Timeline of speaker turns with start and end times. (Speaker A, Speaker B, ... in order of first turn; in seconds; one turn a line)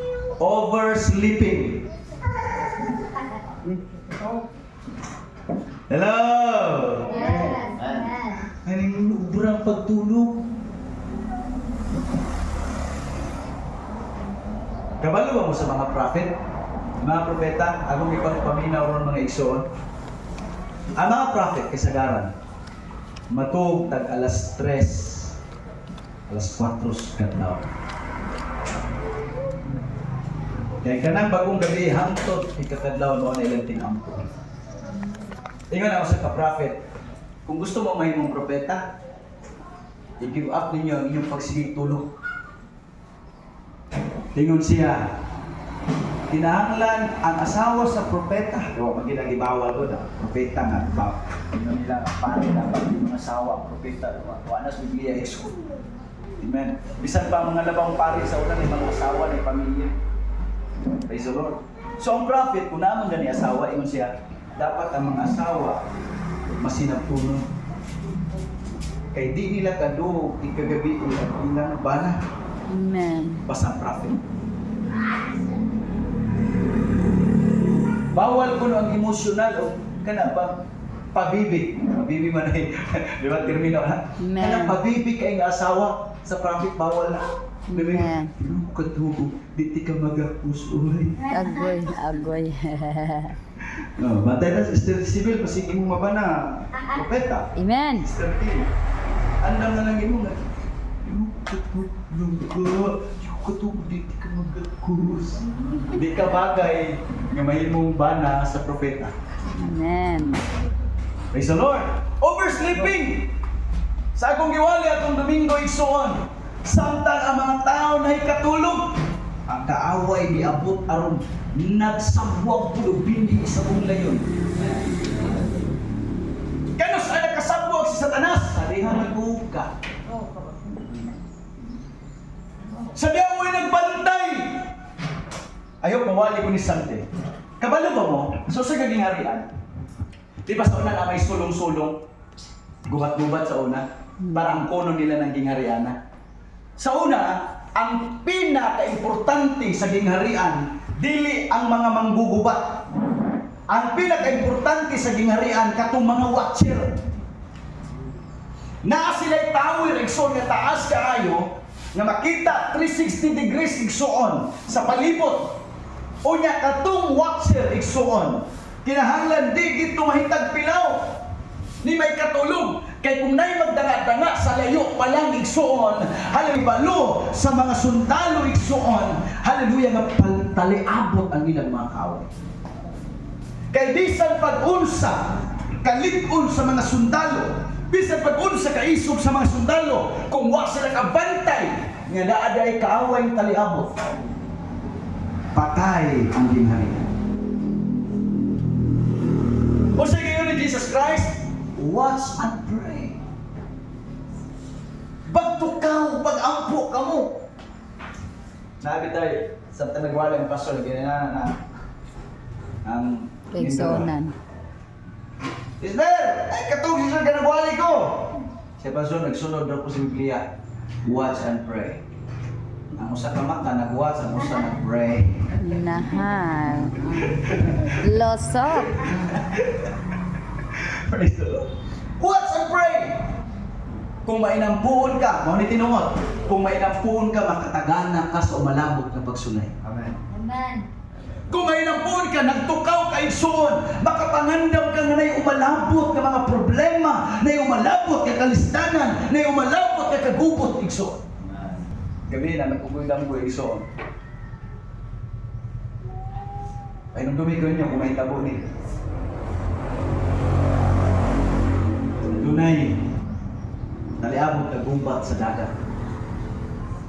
Speaker A: 0.4-1.9
Speaker A: 5.9-7.2
Speaker B: 7.1-8.4
Speaker A: 8.7-10.4
Speaker A: 15.0-16.3
Speaker A: 17.0-19.6
Speaker A: 21.0-22.3
Speaker A: 23.3-25.4
Speaker A: 26.3-27.7
Speaker A: 30.8-34.3
Speaker A: 35.7-36.8
Speaker A: 37.5-38.9
Speaker A: 40.2-42.1
Speaker A: 44.4-45.1
Speaker A: 46.3-55.6
Speaker A: 56.4-59.9
Speaker A: 61.1-65.8
Speaker A: 66.5-67.5
Speaker A: 69.1-72.2
Speaker C: 72.7-73.4
Speaker A: 73.5-74.2
Speaker A: 78.1-80.6
Speaker A: 81.1-91.2
Speaker C: 84.2-84.8
Speaker C: 87.7-88.3
Speaker C: 91.3-93.4
Speaker A: 93.8-97.5
Speaker C: 97.5-98.1
Speaker A: 98.0-98.7
Speaker A: 99.4-100.4
Speaker A: 101.0-109.1
Speaker C: 109.5-110.5
Speaker A: 111.3-113.3
Speaker A: 114.2-118.9
Speaker A: 119.5-124.3
Speaker A: 126.8-129.7
Speaker A: 132.9-134.7
Speaker A: 135.8-137.1
Speaker A: 137.6-139.5
Speaker A: 140.5-142.0
Speaker A: 142.9-146.0
Speaker C: 144.2-144.6
Speaker A: 146.8-152.8
Speaker A: 153.7-157.0
Speaker A: 158.8-165.6
Speaker A: 166.2-171.2
Speaker A: 171.8-182.3
Speaker A: 183.7-185.2
Speaker A: 185.8-194.0
Speaker A: 195.6-197.1
Speaker A: 200.0-203.2
Speaker A: 205.3-207.4
Speaker A: 208.8-211.6
Speaker A: 212.8-214.1
Speaker C: 213.5-214.3
Speaker A: 215.8-220.5
Speaker A: 221.1-222.0
Speaker A: 223.0-225.5
Speaker C: 225.6-229.2
Speaker A: 227.2-228.0
Speaker A: 228.8-229.9
Speaker A: 230.7-233.3
Speaker A: 234.3-239.8
Speaker B: 240.3-240.9
Speaker A: 241.5-251.3
Speaker A: 252.3-253.9
Speaker A: 257.1-258.7
Speaker A: 262.3-263.0
Speaker A: 264.2-265.7